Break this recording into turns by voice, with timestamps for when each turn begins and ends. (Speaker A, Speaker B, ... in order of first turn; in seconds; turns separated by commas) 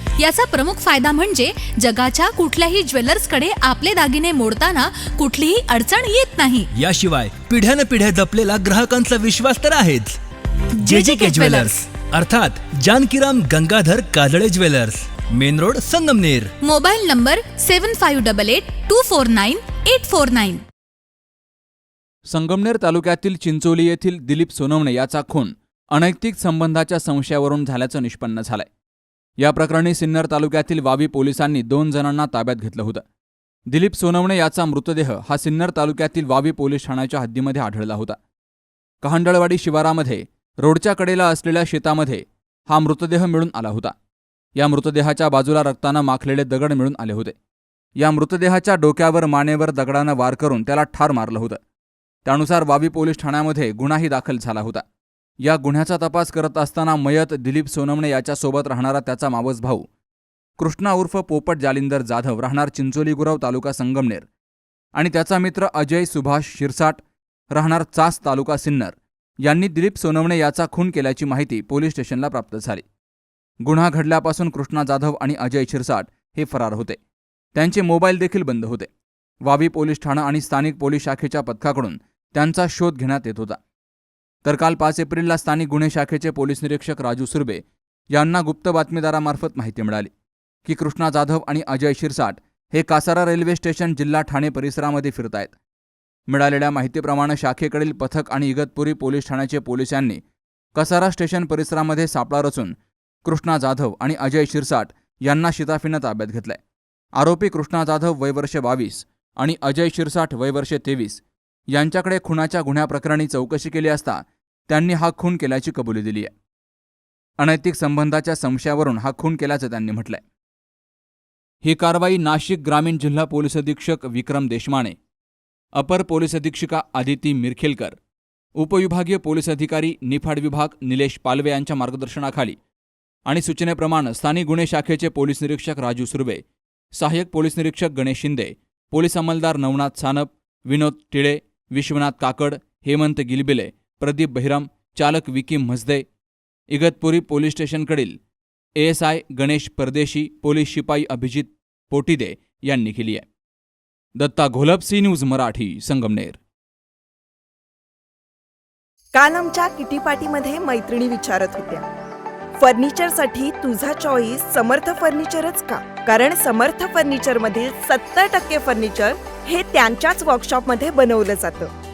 Speaker A: 0.2-6.7, Speaker B: 6.7-10.2, Speaker A: 10.8-11.7, Speaker B: 10.8-16.5, Speaker A: 16.6-20.6, Speaker C: 22.3-28.7, Speaker C: 29.4-33.0, Speaker C: 33.7-38.2, Speaker C: 39.0-43.9, Speaker C: 44.6-47.3, Speaker C: 48.0-51.6, Speaker C: 52.2-54.8, Speaker C: 55.4-59.9, Speaker C: 60.6-64.3, Speaker C: 65.0-72.8, Speaker C: 73.6-77.0, Speaker C: 77.5-78.9, Speaker C: 79.4-83.6, Speaker C: 84.5-90.1, Speaker C: 90.7-95.5, Speaker C: 96.3-100.2, Speaker C: 100.8-106.6, Speaker C: 107.2-111.2, Speaker C: 111.7-116.3, Speaker C: 117.4-120.2, Speaker C: 121.6-125.0, Speaker C: 125.7-128.0, Speaker C: 128.6-132.6, Speaker C: 133.3-136.4, Speaker C: 136.9-146.1, Speaker C: 146.7-148.2, Speaker C: 148.8-153.2, Speaker C: 154.2-156.4, Speaker D: 159.1-161.8, Speaker D: 162.6-171.7